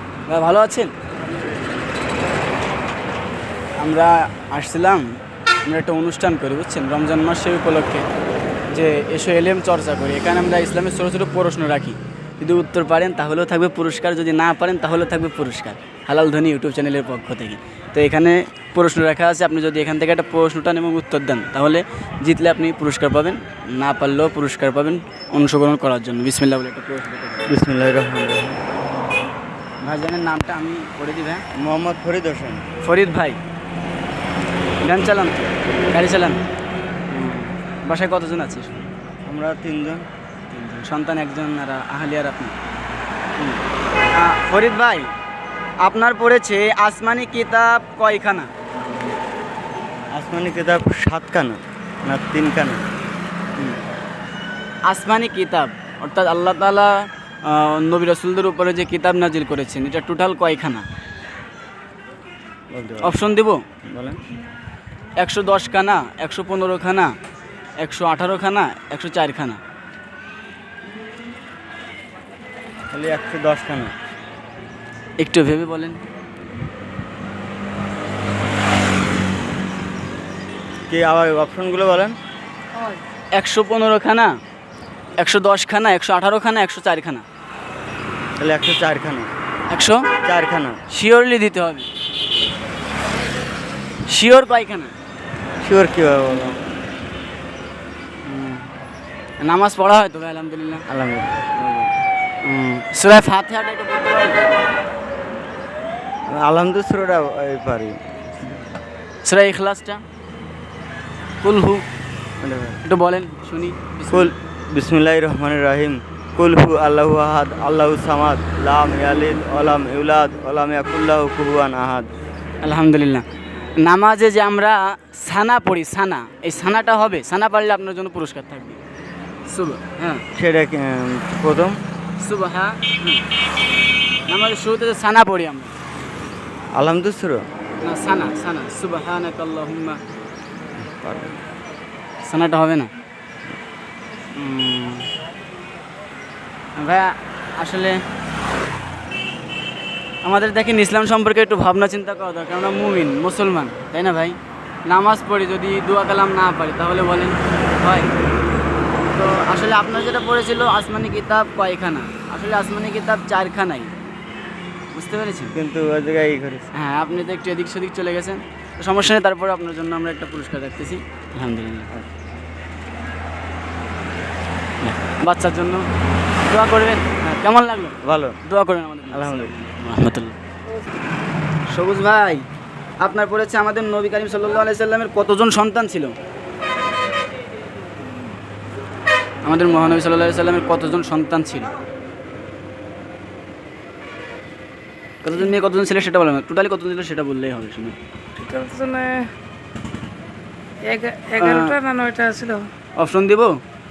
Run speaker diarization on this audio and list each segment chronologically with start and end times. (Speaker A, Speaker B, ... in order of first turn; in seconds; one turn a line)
Speaker A: 0.3-0.9
Speaker A: 3.8-5.1
Speaker A: 5.7-8.1
Speaker A: 8.7-27.5
Speaker B: 27.5-28.6
Speaker A: 29.8-31.4
Speaker B: 31.5-32.6
Speaker A: 32.8-33.4
Speaker A: 34.8-36.4
Speaker A: 37.1-38.8
Speaker B: 39.2-40.0
Speaker A: 40.5-42.5
Speaker A: 44.1-45.1
Speaker A: 45.8-48.5
Speaker B: 50.1-52.8
Speaker A: 54.9-60.8
Speaker B: 62.7-63.2
Speaker A: 63.0-63.6
Speaker B: 63.9-64.2
Speaker A: 65.2-67.1
Speaker A: 67.8-69.6
Speaker B: 72.9-73.9
Speaker A: 75.2-76.0
Speaker B: 80.9-82.2
Speaker A: 83.3-84.3
Speaker A: 85.2-87.2
Speaker B: 88.4-89.3
Speaker A: 89.7-90.1
Speaker B: 90.2-90.8
Speaker A: 90.9-91.9
Speaker A: 94.1-94.9
Speaker B: 95.6-96.6
Speaker A: 98.2-98.7
Speaker A: 99.4-100.8
Speaker B: 100.9-101.9
Speaker A: 102.4-104.4
Speaker B: 106.3-108.0
Speaker A: 109.2-110.0
Speaker A: 111.4-111.8
Speaker B: 112.4-112.8
Speaker A: 112.8-114.3
Speaker B: 114.1-122.1
Speaker A: 122.6-123.2
Speaker A: 123.8-128.8
Speaker A: 129.5-130.2
Speaker B: 130.3-131.8
Speaker A: 132.2-133.2
Speaker A: 134.3-135.7
Speaker B: 136.7-137.4
Speaker A: 137.8-140.0
Speaker B: 140.8-141.4
Speaker A: 142.2-142.9
Speaker A: 144.3-145.1
Speaker A: 146.8-148.0
Speaker A: 150.2-158.1
Speaker A: 159.1-163.9
Speaker A: 164.9-165.5
Speaker B: 165.5-166.7
Speaker A: 166.7-171.9
Speaker A: 174.8-175.9
Speaker A: 176.4-180.3
Speaker B: 178.0-178.4
Speaker B: 179.1-179.5
Speaker A: 181.7-182.4
Speaker A: 183.0-186.1
Speaker A: 189.4-191.7
Speaker A: 195.2-197.9
Speaker C: 198.3-199.2
Speaker C: 200.9-202.6
Speaker A: 201.4-201.7
Speaker A: 203.0-203.6